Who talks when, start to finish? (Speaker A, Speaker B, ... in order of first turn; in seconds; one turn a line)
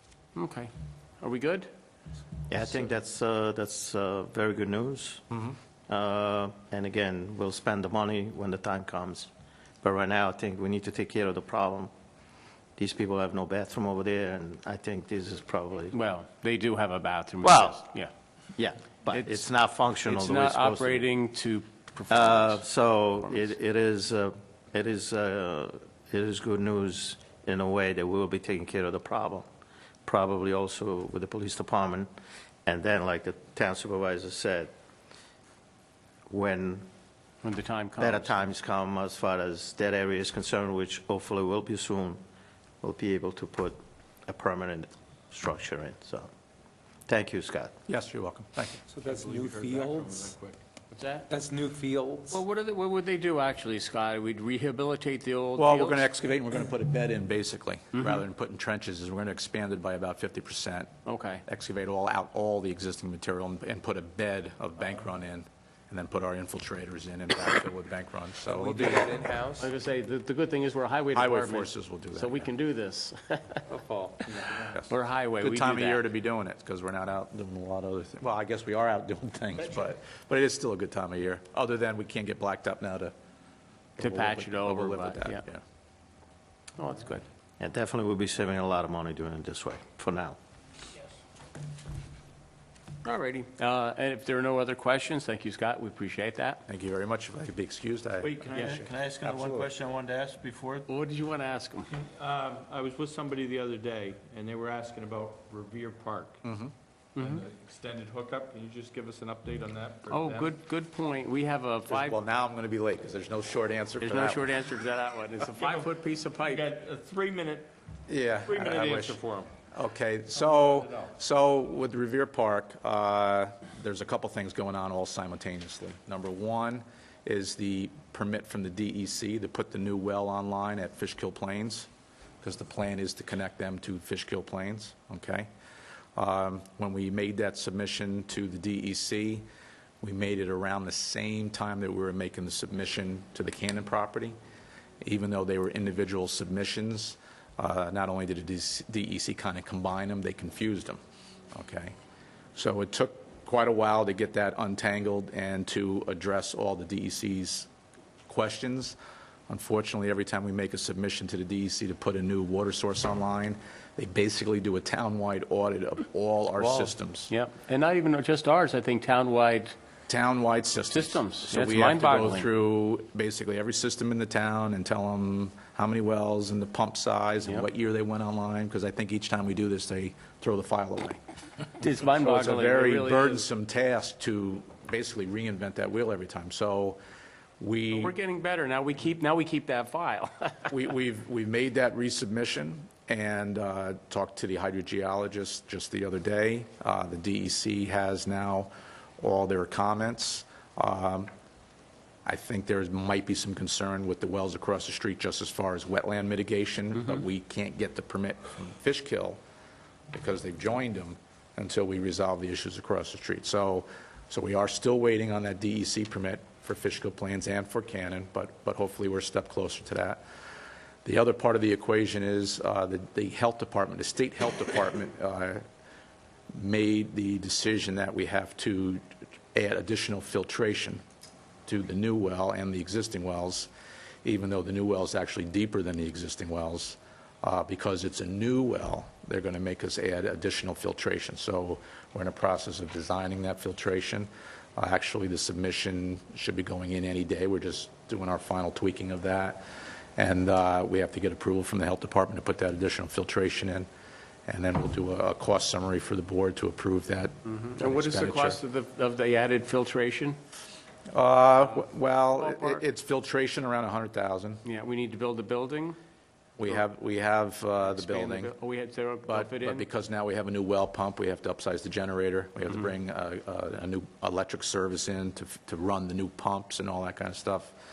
Speaker A: 0.3-1.7
Speaker B: 2.5-5.2
Speaker C: 5.3-5.6
Speaker B: 5.9-9.3
Speaker B: 9.8-11.9
Speaker B: 12.8-16.0
Speaker A: 15.9-18.1
Speaker B: 17.4-17.9
Speaker B: 18.6-21.1
Speaker A: 19.1-19.4
Speaker A: 20.0-22.6
Speaker B: 22.1-29.4
Speaker B: 30.1-32.1
Speaker B: 32.6-34.7
Speaker B: 36.3-36.9
Speaker A: 37.4-38.5
Speaker B: 38.0-42.2
Speaker B: 42.8-46.3
Speaker B: 47.1-47.7
Speaker C: 47.9-48.8
Speaker D: 48.9-50.3
Speaker E: 49.1-50.5
Speaker A: 50.9-51.3
Speaker D: 51.3-52.4
Speaker A: 52.3-56.1
Speaker C: 55.6-61.0
Speaker A: 61.0-61.4
Speaker C: 61.5-69.3
Speaker E: 68.5-69.7
Speaker A: 69.6-73.7
Speaker C: 71.1-72.5
Speaker E: 73.7-74.6
Speaker C: 74.6-83.1
Speaker A: 74.9-76.0
Speaker C: 84.0-85.6
Speaker A: 84.0-85.4
Speaker A: 86.8-87.2
Speaker B: 87.6-90.4
Speaker A: 93.0-96.6
Speaker C: 96.7-99.6
Speaker B: 98.2-100.8
Speaker A: 100.9-101.9
Speaker E: 102.0-106.4
Speaker C: 106.4-106.7
Speaker A: 107.2-107.5
Speaker E: 107.2-110.5
Speaker A: 110.1-112.2
Speaker C: 111.9-114.6
Speaker A: 114.0-116.7
Speaker E: 115.6-115.9
Speaker E: 116.5-117.7
Speaker C: 118.1-119.2
Speaker E: 118.5-119.5
Speaker C: 119.7-131.9
Speaker E: 120.5-120.9
Speaker C: 132.4-135.5
Speaker C: 136.2-139.4
Speaker C: 140.0-144.4
Speaker C: 145.0-151.0
Speaker C: 151.5-151.9
Speaker C: 152.6-157.7
Speaker C: 158.3-159.0
Speaker C: 159.5-167.3
Speaker A: 166.6-169.7
Speaker C: 170.1-181.2
Speaker A: 170.9-172.5
Speaker A: 181.8-183.5
Speaker C: 182.1-187.0
Speaker C: 187.6-188.1
Speaker A: 187.9-190.7
Speaker C: 190.7-201.3
Speaker C: 202.2-209.4
Speaker C: 210.1-220.2
Speaker C: 221.1-225.6
Speaker C: 226.5-231.0
Speaker C: 231.7-233.7
Speaker C: 234.2-249.6
Speaker C: 250.2-253.9
Speaker C: 254.5-258.6
Speaker A: 257.4-260.4
Speaker C: 261.1-264.6
Speaker A: 262.4-262.8
Speaker A: 264.6-266.0
Speaker C: 266.6-268.5
Speaker A: 267.9-269.9
Speaker C: 269.2-277.8